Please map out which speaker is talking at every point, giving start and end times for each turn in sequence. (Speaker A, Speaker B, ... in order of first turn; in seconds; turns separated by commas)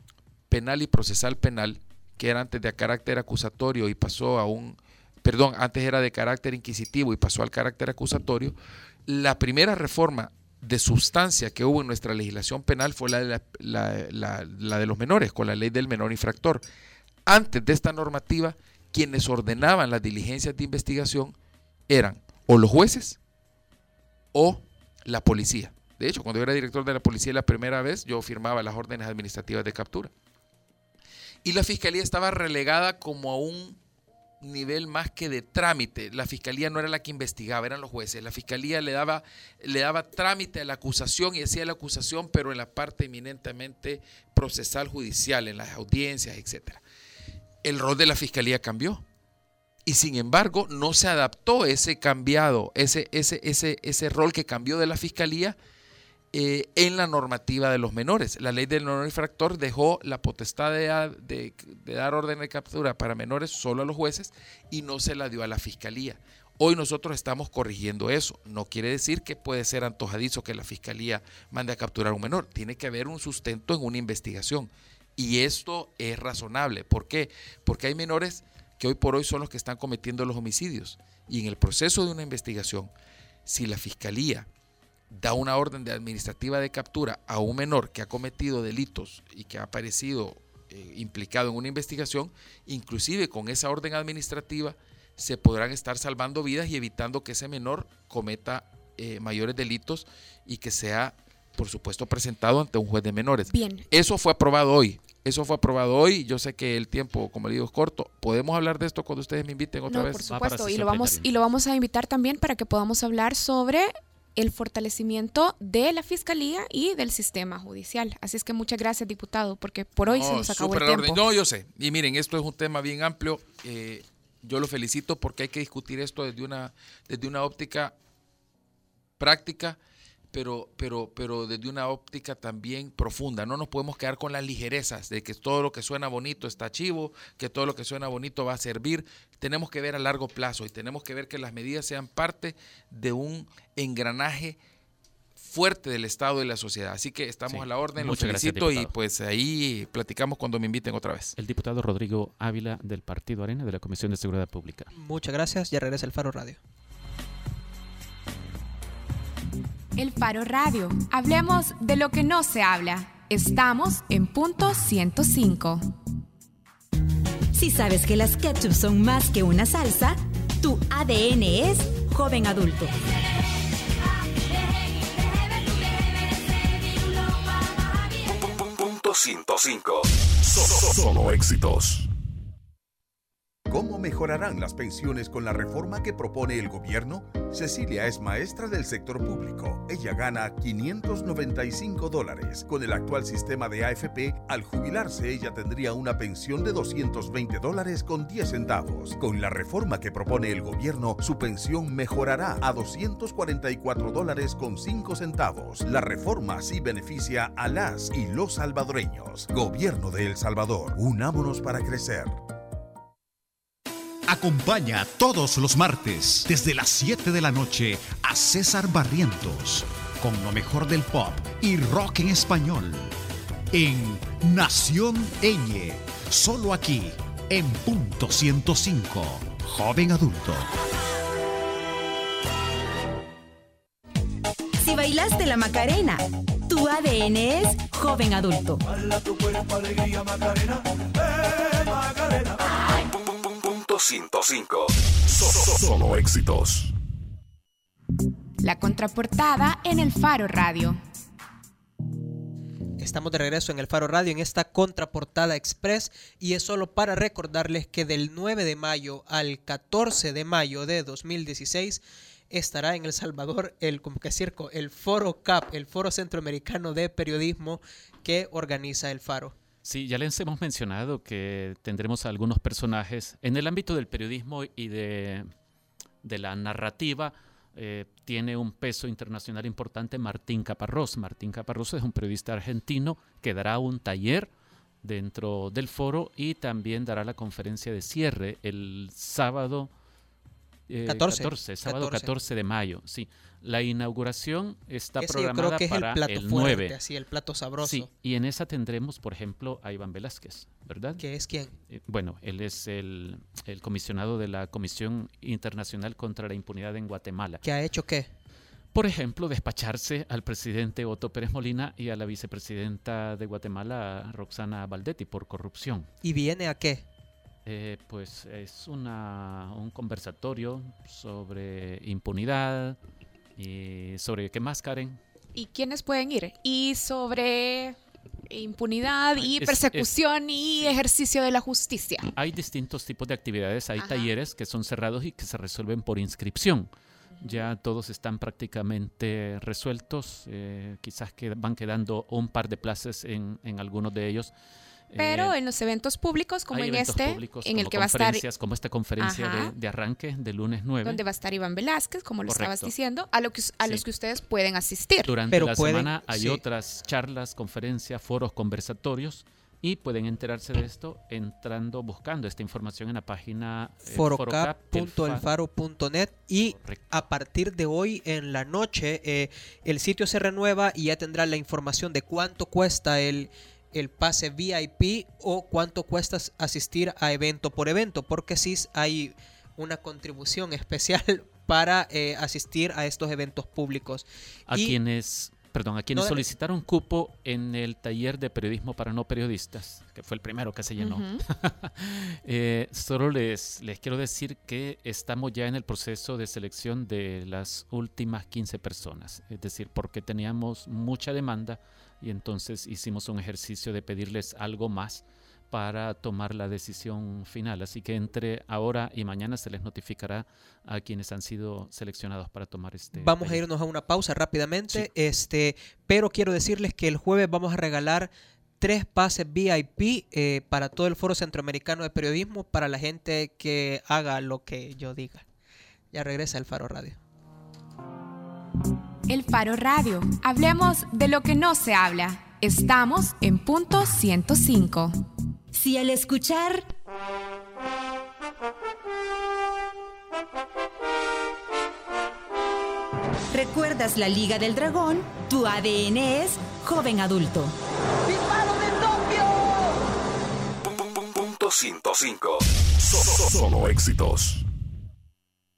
Speaker A: 0.5-8.5, Speaker A: 9.1-16.6, Speaker A: 17.2-21.3, Speaker A: 21.9-23.2, Speaker A: 24.3-30.1, Speaker A: 31.4-33.8, Speaker A: 34.4-46.8, Speaker A: 47.6-49.0, Speaker A: 49.9-55.5, Speaker A: 56.3-82.9, Speaker A: 83.5-84.5, Speaker A: 85.1-110.2, Speaker B: 103.5-103.8, Speaker B: 109.9-121.3, Speaker C: 110.2-111.5, Speaker A: 120.0-127.9, Speaker A: 129.2-129.8, Speaker A: 130.3-144.6, Speaker A: 145.4-151.3, Speaker C: 147.5-148.9, Speaker C: 151.4-154.9, Speaker D: 154.9-156.6, Speaker B: 160.0-165.9, Speaker E: 167.5-173.0, Speaker F: 178.3-182.1, Speaker G: 183.7-212.4, Speaker H: 214.3-222.9, Speaker H: 223.7-230.6, Speaker E: 234.8-238.8, Speaker F: 242.9-246.9, Speaker B: 248.6-251.0, Speaker D: 253.0-269.5, Speaker C: 269.8-275.5, Speaker C: 276.2-284.5, Speaker C: 285.0-289.9, Speaker C: 290.9-297.0, Speaker D: 291.1-292.3, Speaker D: 295.2-298.1, Speaker C: 297.8-301.2, Speaker D: 301.2-301.7, Speaker C: 301.9-307.6, Speaker D: 307.6-308.3, Speaker C: 308.9-316.1, Speaker D: 316.2-317.0, Speaker C: 317.6-323.0, Speaker C: 323.6-325.2, Speaker B: 325.5-328.0, Speaker B: 328.5-332.3, Speaker C: 329.4-330.1, Speaker C: 332.3-336.9, Speaker B: 334.0-334.3, Speaker C: 337.4-344.5, Speaker C: 345.1-345.6, Speaker B: 345.2-348.4, Speaker C: 346.7-351.2, Speaker B: 349.2-349.7, Speaker B: 351.0-355.3, Speaker C: 352.5-352.9, Speaker C: 355.2-365.4, Speaker D: 355.5-356.6, Speaker D: 364.0-385.0, Speaker C: 366.6-367.1, Speaker C: 384.7-413.6, Speaker D: 386.1-386.4, Speaker B: 391.0-391.4, Speaker D: 413.1-425.4, Speaker D: 426.1-427.2, Speaker B: 429.3-435.2, Speaker E: 435.7-436.9, Speaker E: 443.5-447.7, Speaker F: 450.8-454.6